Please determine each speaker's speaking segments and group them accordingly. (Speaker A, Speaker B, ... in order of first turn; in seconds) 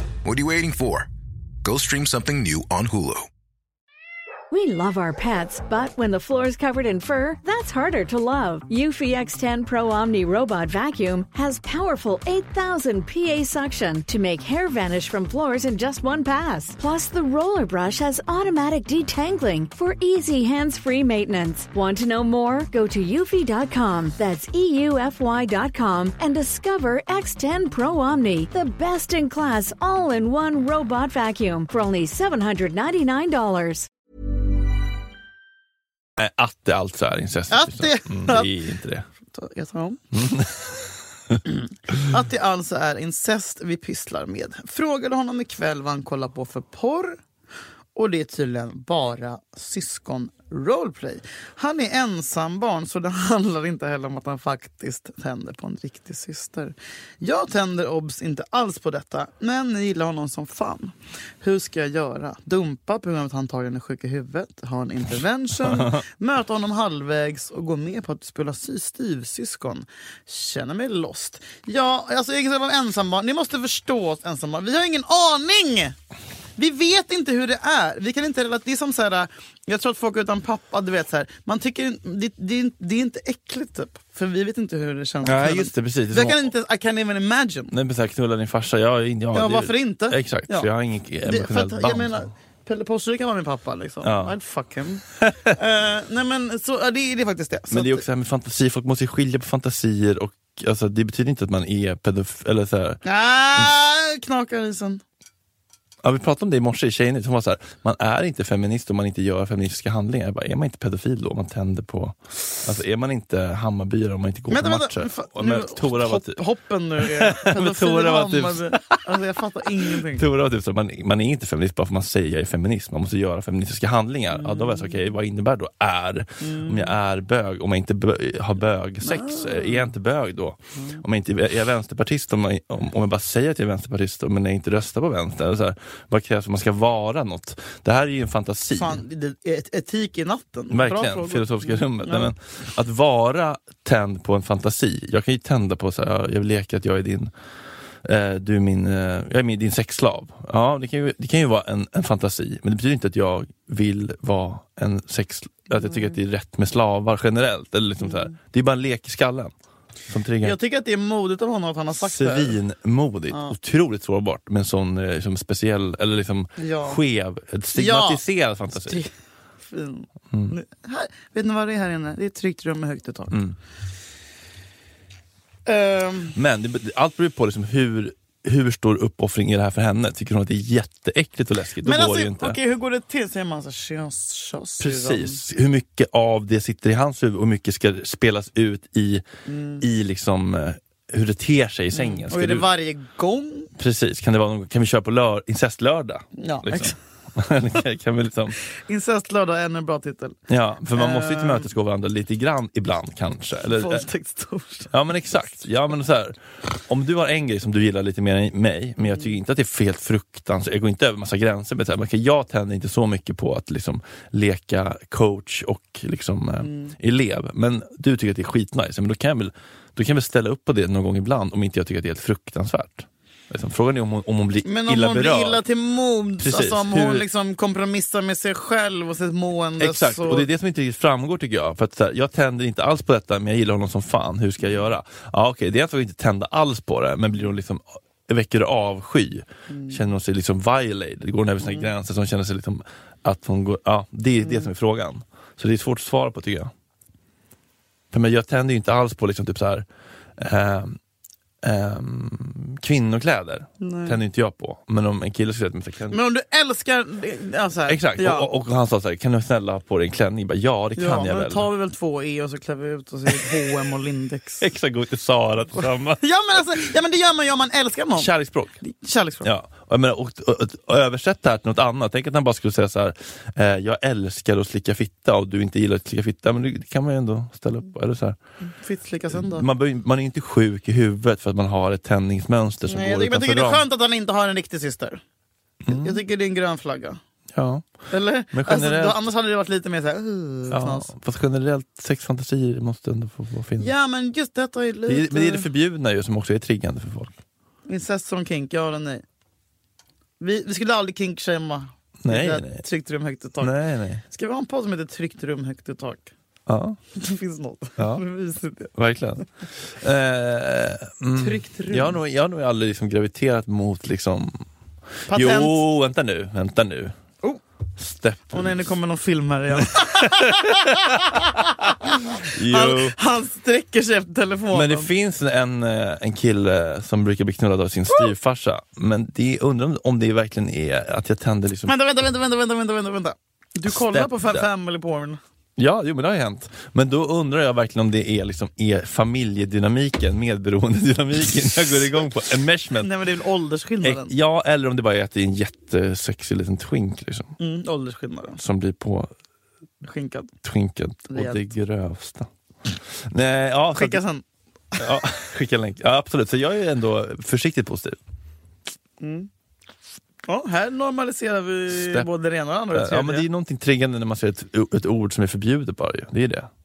Speaker A: 0.2-1.1, 1.6-3.3
Speaker B: 4.5-33.9
Speaker C: 36.2-39.1, 40.1-40.6, 65.7-66.0, 85.2-86.5, 87.7-92.3, 94.0-94.3, 95.2-95.5, 97.7-103.0, 106.0-116.4, 117.0-119.0, 119.9-139.0, 140.7-147.3, 148.0-159.5, 160.1-160.6, 162.0-169.0, 173.3-173.6, 176.4-182.6, 184.8-189.2, 189.8-192.7, 193.8-198.6, 200.5-204.1, 204.9-225.6, 226.4-227.2, 229.8-246.7, 248.1-249.9, 250.4-251.0, 251.6-256.2, 257.9-261.7, 264.6-266.7, 268.1-268.8, 269.4-278.4, 279.3-283.8, 285.8-286.2, 287.5-287.9, 288.5-289.2, 290.7-293.9, 295.1-297.4, 302.2-302.9, 303.6-304.2, 306.7-307.0, 308.0-308.2, 308.9-314.6, 315.3-317.2, 318.0-318.8, 319.8-323.1, 324.7-331.9, 333.9-334.7, 335.8-343.1, 344.0-347.6, 348.6-349.3, 350.6-354.2, 355.0-358.2, 361.9-362.3, 362.9-366.7
Speaker D: 37.5-38.5, 39.3-40.0, 41.5-47.2, 48.0-76.0, 76.6-87.7, 89.3-90.7, 91.2-98.0, 103.0-105.0, 114.5-120.2, 124.3-125.1, 126.4-127.0, 129.0-129.9, 130.8-131.0, 138.7-142.3, 155.7-156.1, 158.1-158.3, 160.4-162.6, 166.6-167.0, 167.7-169.1, 169.6-173.4, 175.7-176.4, 181.8-185.4, 189.5-189.8, 191.9-193.7, 196.4-197.0, 198.8-200.4, 200.9-201.7, 203.7-204.9, 216.6-216.9, 224.7-230.5, 239.7-240.0, 241.6-241.9, 244.4-244.7, 253.8-254.2, 256.1-258.5, 261.0-264.7, 266.2-269.5, 278.6-279.7, 282.9-285.2, 285.9-287.2, 288.1-291.1, 293.8-295.7, 297.9-299.2, 300.4-303.7, 304.2-306.3, 307.1-308.9, 311.4-312.2, 315.3-315.8, 318.5-325.1, 331.9-335.4, 343.0-344.3, 347.6-348.6, 350.0-350.5, 351.3-351.7, 353.9-354.4, 359.2-359.5, 360.5-363.5